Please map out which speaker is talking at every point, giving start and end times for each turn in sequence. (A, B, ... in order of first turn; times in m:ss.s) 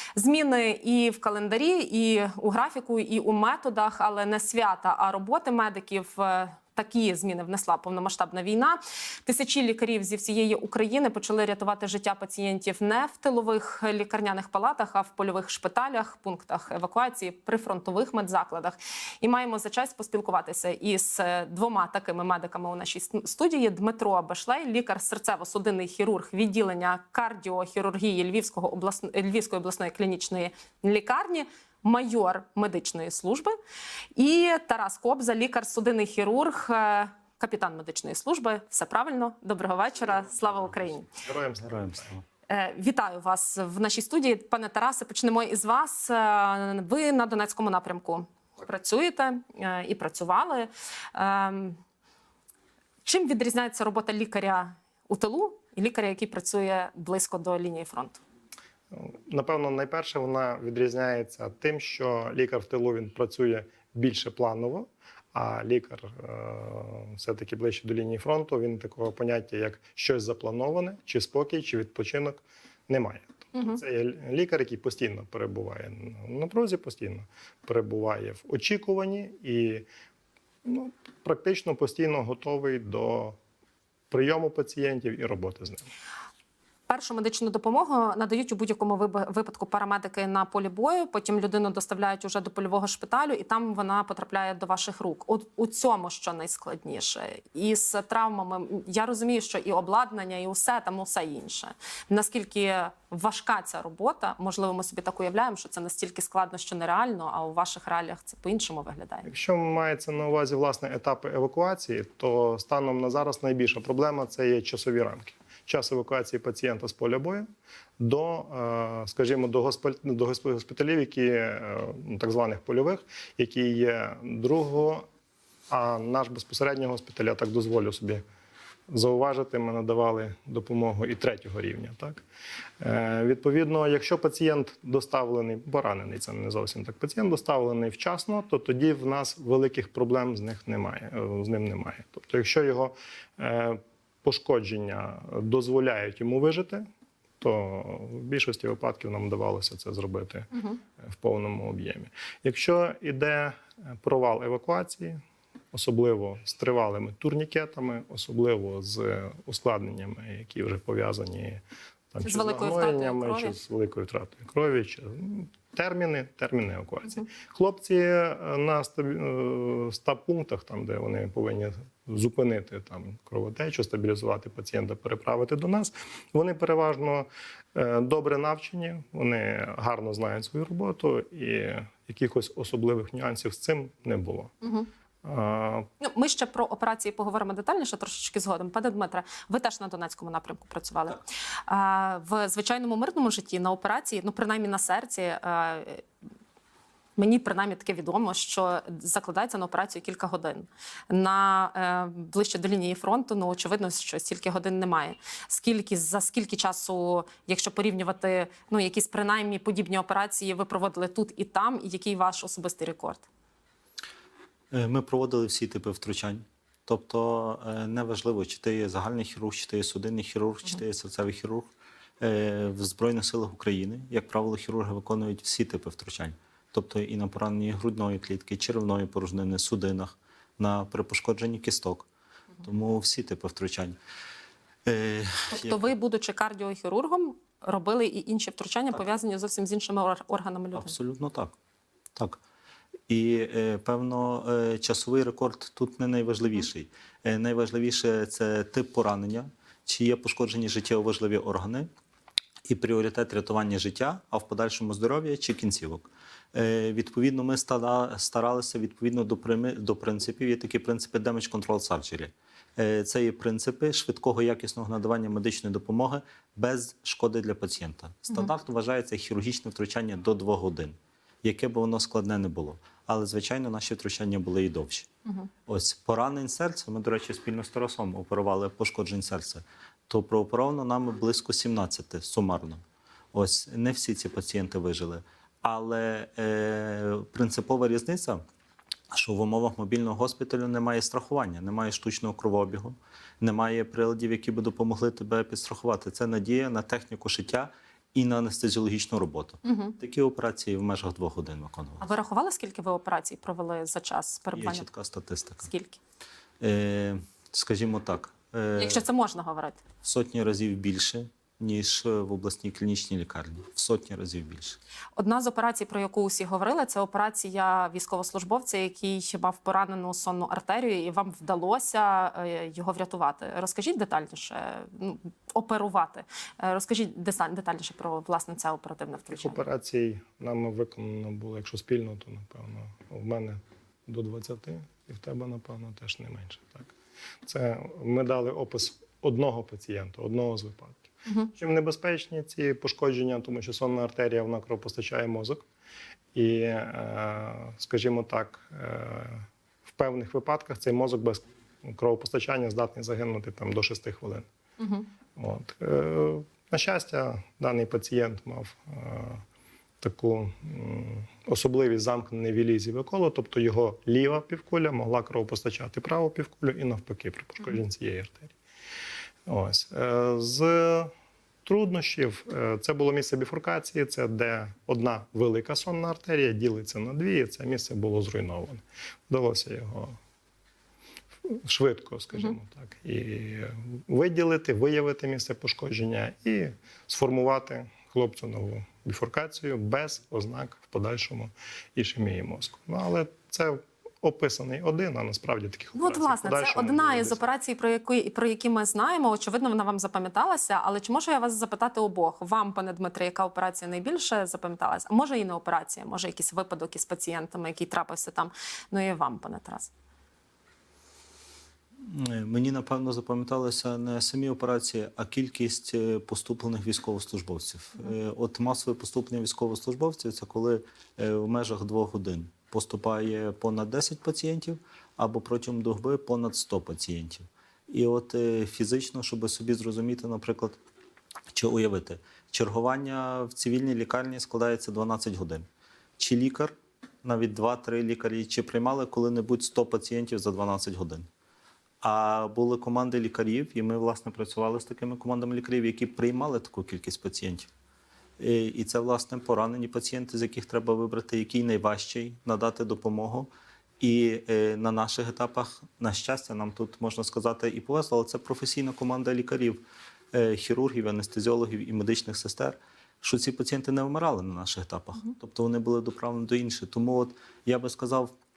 0:00.2-0:33.5 A
0:34.2-0:41.1 A
0:41.1-0:42.1 B
0:41.6-0:42.2 C
0:42.5-0:51.8 A
0:53.0-0:58.2 A
0:58.9-1:19.8 B
1:20.6-1:23.4 B
1:24.1-1:25.9 B
1:26.9-1:49.3 A
1:49.2-1:57.5 B
1:58.0-2:05.0 B
2:05.7-2:08.2 B
2:08.9-2:12.2 B
2:12.8-2:26.8 B
2:27.4-2:35.2 B
2:35.7-3:04.5 B
2:42.2-2:43.5 A
3:04.6-3:04.9 A
3:05.2-3:05.9 B
3:06.0-3:16.0 A
3:17.2-3:33.3 A
3:34.7-3:41.7 C
3:42.2-3:52.1 C
3:52.6-3:54.0 C
3:54.8-3:55.9 C
3:55.5-4:00.9 A
4:00.7-4:01.5 C
4:03.1-4:11.9 C
4:12.6-4:35.1 C
4:35.7-4:42.8 C
4:43.3-4:48.4 C
4:49.1-5:02.1 C
4:59.6-5:00.0 A
5:02.0-5:04.9 A
5:04.5-5:05.7 C
5:05.6-5:06.0 A
5:06.6-5:09.0 C
5:08.8-5:09.8 A
5:10.0-5:14.8 C
5:15.2-5:29.6 A
5:29.3-5:36.9 B
5:37.4-5:45.6 B
5:46.3-5:49.4 B
5:49.9-5:54.5 B
5:54.8-5:55.0 A
5:55.4-5:59.4 B
6:00.0-6:08.5 B
6:09.4-6:11.1 B
6:11.6-6:20.2 B
6:21.4-6:37.4 B
6:36.0-6:49.9 A
6:52.0-7:10.8 C
7:11.5-7:15.6 C
7:16.2-7:21.2 C
7:22.0-7:27.7 C
7:28.4-7:33.5 C
7:34.0-7:39.8 C
7:40.3-7:48.3 C